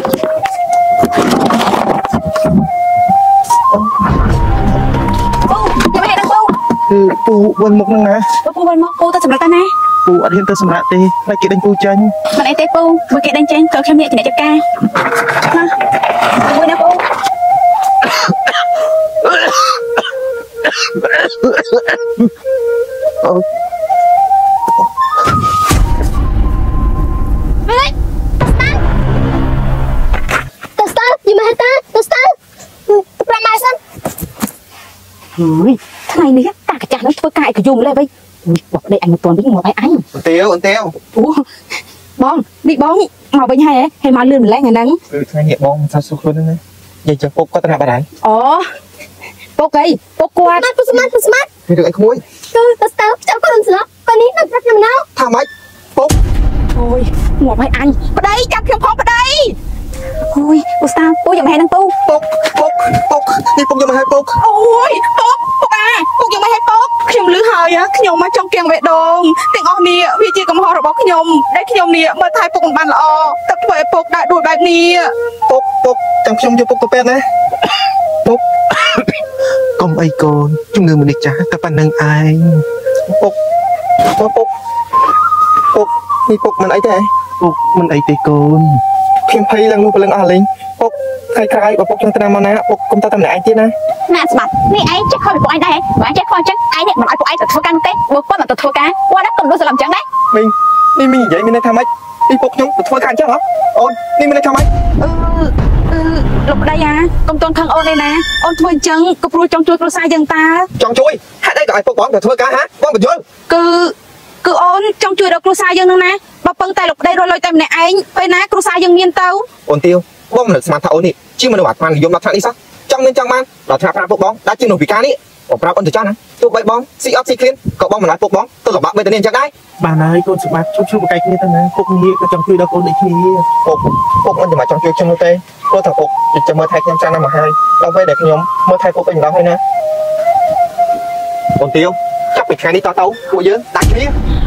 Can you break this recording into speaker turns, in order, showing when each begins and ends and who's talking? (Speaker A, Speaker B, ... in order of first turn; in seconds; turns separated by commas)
Speaker A: 5.5-6.5, Speaker B: 6.9-8.3, Speaker A: 8.4-9.7, Speaker B: 10.0-12.1, Speaker A: 12.3-14.6, Speaker A: 15.3-15.7, Speaker A: 16.4-17.1, Speaker B: 19.2-19.8, Speaker B: 20.6-22.3, Speaker C: 28.4-28.8, Speaker C: 30.8-32.3, Speaker C: 32.9-33.8, Speaker A: 35.4-40.0, Speaker D: 40.1-40.9, Speaker A: 41.1-41.4, Speaker A: 42.2-45.0, Speaker D: 45.1-48.0, Speaker A: 48.2-48.7, Speaker A: 49.6-50.6, Speaker C: 50.4-51.5, Speaker D: 51.7-52.2, Speaker C: 52.5-55.0, Speaker D: 55.1-56.1, Speaker A: 56.7-59.5, Speaker A: 60.3-62.0, Speaker D: 62.0-64.4, Speaker A: 64.4-75.1, Speaker D: 75.5-77.2, Speaker B: 78.8-79.2, Speaker B: 79.8-82.6, Speaker D: 83.1-83.3, Speaker D: 84.2-84.5, Speaker D: 85.7-87.1, Speaker B: 87.4-88.8, Speaker D: 89.3-93.7, Speaker A: 94.1-100.0, Speaker D: 100.3-104.7, Speaker A: 105.0-110.7, Speaker D: 110.8-113.2, Speaker A: 113.5-119.5, Speaker D: 119.7-129.5, Speaker B: 129.8-133.6, Speaker D: 133.6-139.6, Speaker D: 141.6-144.1